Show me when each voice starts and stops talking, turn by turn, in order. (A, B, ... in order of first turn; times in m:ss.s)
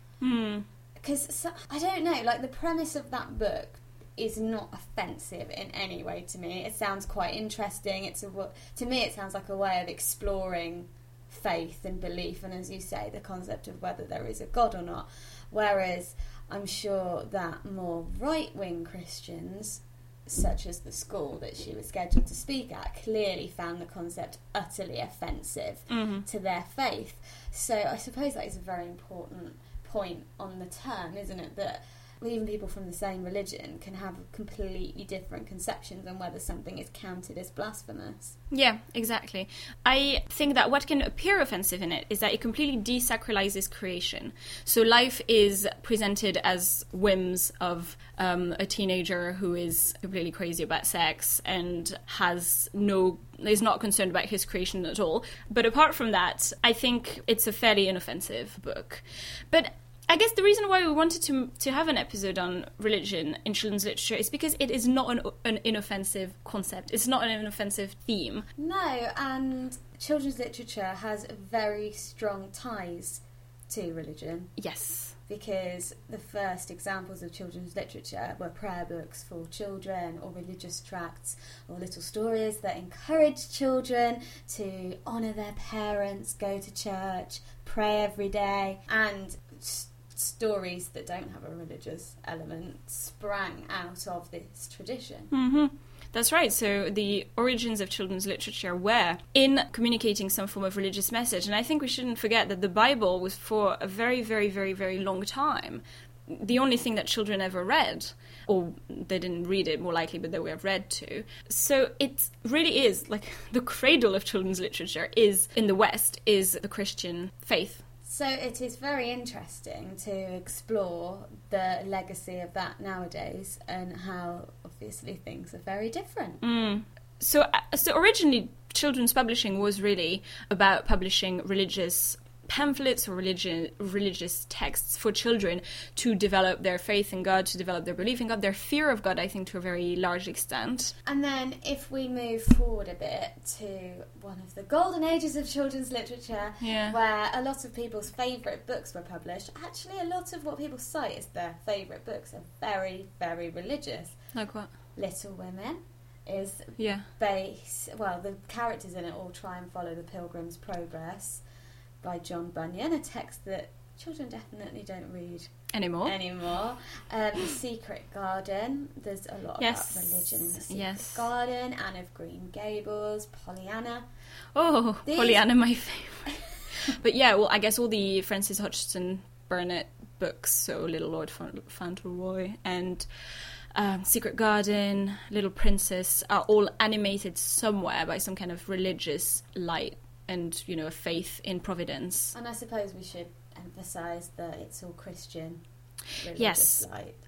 0:00.2-0:00.6 A
0:01.0-0:38.4 B
0:25.9-0:26.2 A
0:38.5-1:08.5 A
1:08.6-1:14.5 B
1:14.6-1:15.2 A
1:15.3-1:35.3 B
1:35.3-1:57.8 A
1:58.0-2:06.4 B
2:06.4-2:20.9 A
2:21.0-2:34.2 B
2:26.6-2:27.0 A
2:34.3-2:34.7 A
2:35.0-2:41.4 B
2:36.8-2:37.0 A
2:42.0-2:45.5 B
2:45.7-2:46.1 A
2:46.0-2:54.0 B
2:49.6-2:51.2 A
2:54.5-3:03.1 A
2:55.0-2:55.4 B
3:03.7-3:12.3 A
3:12.3-3:15.6 B
3:16.2-3:17.2 B
3:16.4-3:16.9 A